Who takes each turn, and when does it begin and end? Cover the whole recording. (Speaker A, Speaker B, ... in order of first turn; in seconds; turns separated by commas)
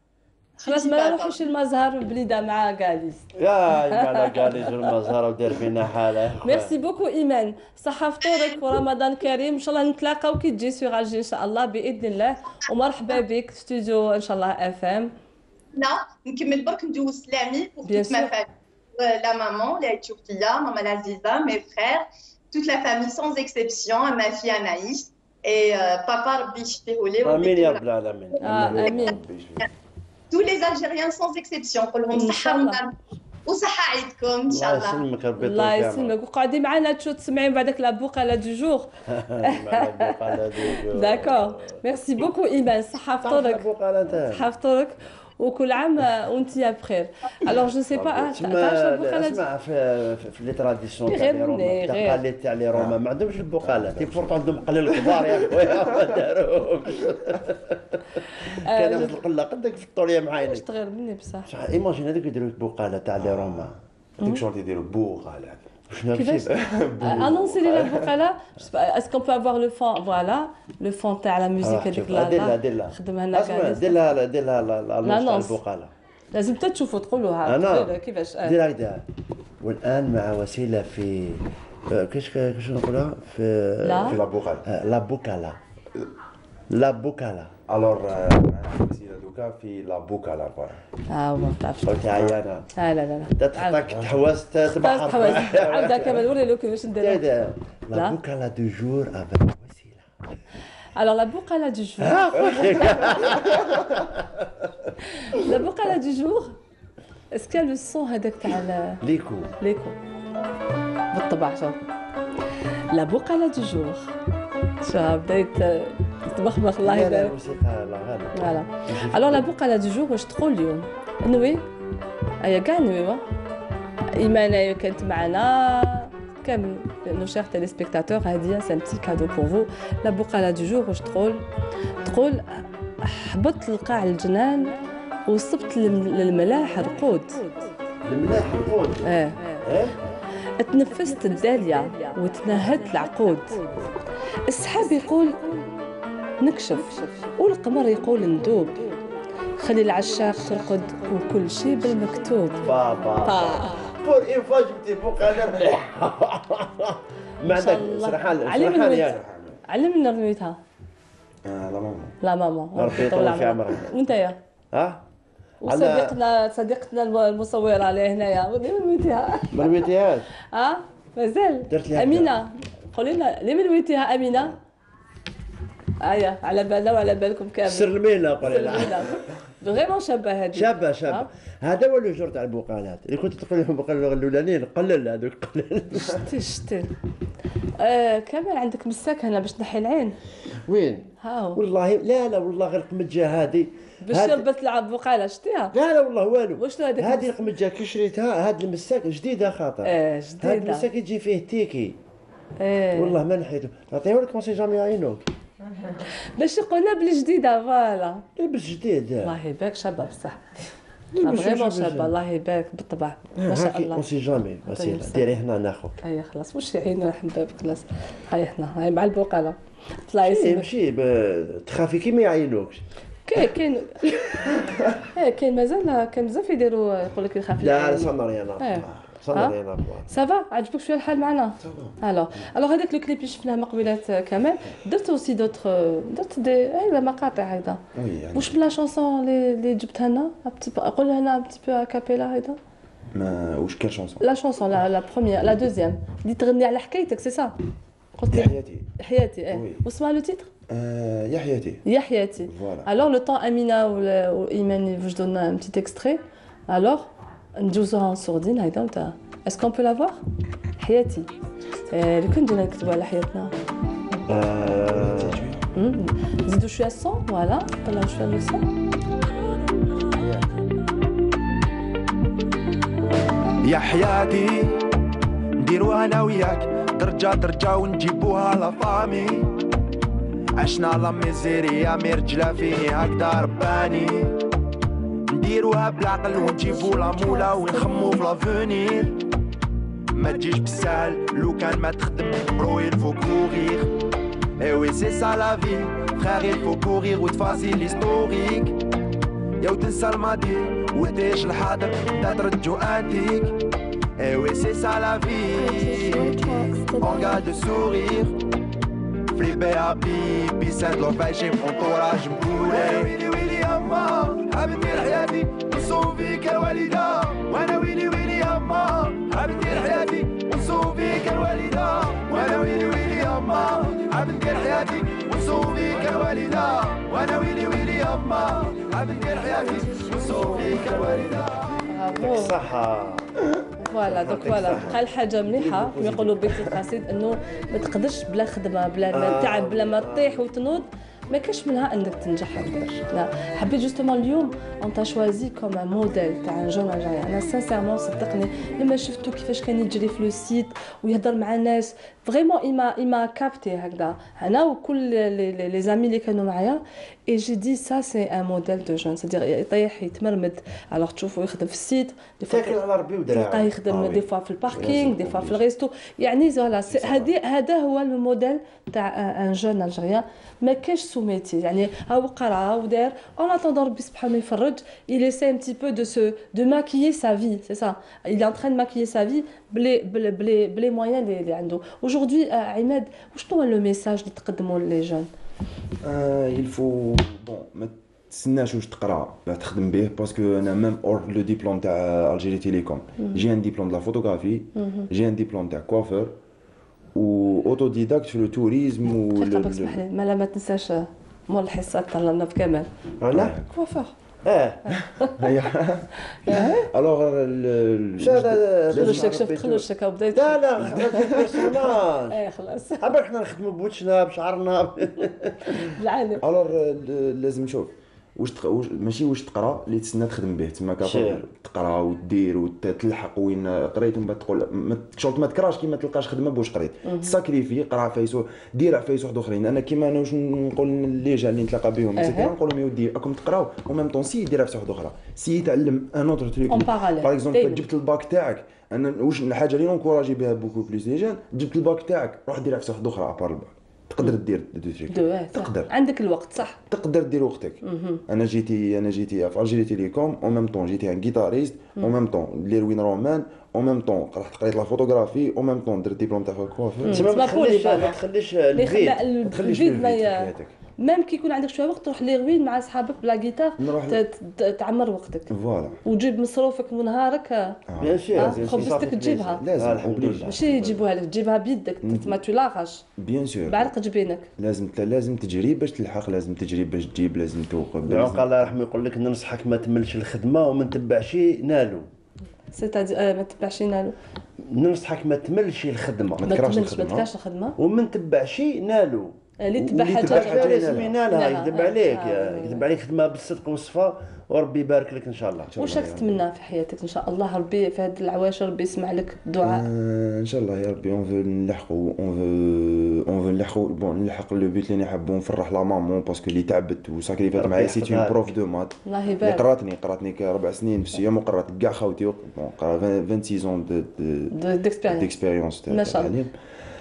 Speaker A: 0.6-1.4, Speaker B: 0.7-3.3, Speaker C: 3.4-6.8, Speaker B: 3.9-4.9, Speaker B: 6.4-15.1, Speaker A: 8.2-8.6, Speaker A: 15.7-27.8, Speaker B: 17.9-18.3, Speaker C: 27.2-29.0, Speaker B: 28.4-29.2, Speaker D: 28.5-29.7, Speaker A: 30.3-33.0, Speaker B: 32.1-32.8, Speaker A: 33.5-35.0, Speaker C: 34.5-36.1, Speaker B: 35.4-38.9, Speaker C: 39.1-41.8, Speaker B: 39.4-43.6, Speaker C: 43.2-44.5, Speaker B: 44.3-49.4, Speaker C: 48.0-60.6, Speaker B: 51.1-52.2, Speaker D: 53.6-56.0, Speaker B: 58.4-59.1, Speaker B: 60.4-61.5, Speaker C: 61.5-63.7, Speaker D: 63.2-65.7, Speaker C: 65.9-67.3, Speaker B: 66.1-66.5, Speaker D: 66.5-68.1, Speaker B: 67.0-74.0, Speaker C: 71.6-75.9, Speaker B: 75.0-75.6, Speaker B: 76.3-78.6, Speaker C: 77.5-79.0, Speaker C: 79.6-85.6, Speaker B: 83.8-84.2, Speaker D: 84.0-84.6, Speaker C: 86.7-87.5, Speaker D: 87.7-90.8, Speaker B: 91.1-92.1, Speaker C: 91.8-92.7, Speaker B: 92.8-93.8, Speaker C: 93.4-96.3, Speaker D: 93.9-94.2, Speaker B: 94.8-97.2, Speaker C: 97.0-100.1, Speaker B: 101.0-103.4, Speaker C: 102.0-104.7, Speaker B: 105.1-106.5, Speaker B: 107.3-109.0, Speaker C: 109.0-109.5, Speaker B: 109.6-110.0, Speaker B: 111.1-111.8, Speaker B: 112.9-114.1, Speaker B: 114.8-117.3, Speaker C: 116.8-119.5, Speaker B: 118.4-121.6, Speaker B: 122.4-123.2, Speaker B: 124.2-131.4, Speaker B: 132.1-132.4, Speaker B: 133.0-134.8, Speaker B: 135.3-137.5, Speaker C: 138.1-140.0, Speaker B: 139.1-139.4, Speaker B: 140.6-143.6, Speaker B: 144.5-145.4, Speaker B: 146.4-148.8, Speaker B: 149.6-153.9, Speaker C: 152.6-159.2, Speaker B: 157.5-159.2, Speaker D: 158.9-159.6, Speaker B: 159.7-160.6, Speaker D: 161.4-162.1, Speaker B: 162.2-164.4, Speaker C: 162.8-163.9, Speaker C: 164.7-165.0, Speaker B: 165.6-169.8, Speaker C: 165.7-166.2, Speaker C: 169.5-170.3, Speaker B: 170.5-174.6, Speaker C: 171.7-172.4, Speaker B: 176.0-181.3, Speaker C: 177.7-179.1, Speaker C: 180.5-186.2, Speaker B: 186.2-186.9, Speaker B: 187.8-190.2, Speaker C: 190.7-194.5, Speaker B: 191.2-191.6, Speaker B: 194.0-195.7, Speaker C: 195.7-202.0, Speaker B: 196.6-197.3, Speaker B: 199.8-200.9, Speaker B: 202.6-203.2, Speaker C: 202.9-205.3, Speaker B: 206.3-208.2, Speaker C: 208.4-209.3, Speaker B: 209.2-210.5, Speaker C: 211.2-212.2, Speaker B: 211.2-214.1, Speaker C: 213.4-216.0, Speaker B: 214.7-215.3, Speaker B: 216.0-220.7, Speaker C: 220.2-222.8, Speaker B: 223.3-224.1, Speaker B: 225.1-229.6, Speaker C: 227.6-230.1, Speaker B: 230.1-237.8, Speaker D: 231.6-231.9, Speaker D: 237.9-238.6, Speaker B: 238.3-242.6, Speaker D: 243.1-244.2, Speaker B: 244.2-247.5, Speaker B: 248.2-250.5, Speaker D: 248.3-248.9, Speaker D: 249.5-249.8, Speaker D: 250.7-251.8, Speaker B: 251.8-260.2, Speaker D: 252.5-252.9, Speaker B: 260.8-261.3, Speaker B: 261.9-263.5, Speaker C: 264.3-265.5, Speaker D: 264.7-265.6, Speaker B: 265.7-268.7, Speaker E: 273.6-274.8, Speaker E: 275.6-279.5, Speaker E: 280.6-284.4, Speaker E: 285.3-289.2, Speaker B: 286.4-288.3, Speaker E: 290.1-293.9, Speaker E: 294.6-298.8, Speaker E: 299.6-303.6, Speaker E: 304.2-308.4, Speaker B: 305.6-307.2, Speaker E: 309.3-331.8, Speaker B: 331.9-332.6, Speaker C: 332.2-333.3, Speaker B: 333.9-362.8, Speaker C: 334.0-336.6, Speaker C: 339.1-340.4, Speaker C: 362.5-364.2, Speaker B: 363.3-385.3, Speaker D: 364.7-365.6, Speaker D: 366.9-367.3, Speaker D: 386.0-396.4, Speaker B: 394.8-395.1, Speaker D: 397.1-400.0, Speaker B: 399.3-402.9, Speaker C: 403.2-403.6, Speaker D: 403.3-403.6, Speaker B: 403.7-404.1, Speaker C: 404.4-404.8, Speaker B: 404.9-405.3, Speaker D: 405.0-409.4, Speaker B: 406.4-406.9, Speaker C: 408.2-412.4, Speaker B: 408.9-411.7, Speaker D: 410.8-411.7, Speaker B: 412.3-413.1, Speaker C: 413.0-415.8, Speaker B: 415.8-416.4, Speaker D: 416.4-445.9, Speaker C: 421.0-421.4, Speaker B: 427.1-427.3, Speaker B: 432.2-432.5, Speaker B: 436.7-437.9, Speaker B: 445.1-446.8, Speaker D: 446.8-457.3, Speaker B: 447.8-448.2, Speaker B: 457.1-458.2, Speaker C: 457.1-459.8, Speaker B: 458.8-465.5, Speaker D: 459.5-460.8, Speaker D: 463.8-464.2, Speaker D: 465.5-466.0, Speaker B: 466.0-467.8, Speaker D: 467.9-468.8, Speaker C: 468.0-470.7, Speaker B: 468.4-469.6, Speaker D: 469.6-471.0, Speaker B: 470.5-473.0, Speaker D: 472.0-472.4, Speaker D: 473.2-473.9, Speaker B: 473.7-474.5, Speaker D: 474.6-478.8, Speaker C: 478.1-482.1, Speaker B: 482.7-484.1, Speaker C: 484.7-486.7, Speaker D: 486.4-487.3, Speaker B: 486.4-487.8, Speaker C: 487.8-489.3, Speaker B: 489.6-492.8, Speaker D: 489.8-491.2, Speaker C: 490.1-495.7, Speaker D: 495.7-496.4, Speaker B: 495.8-499.9, Speaker D: 499.6-514.5, Speaker C: 507.6-508.5, Speaker B: 509.1-509.6, Speaker B: 514.5-515.3, Speaker D: 515.1-516.5, Speaker B: 515.9-516.3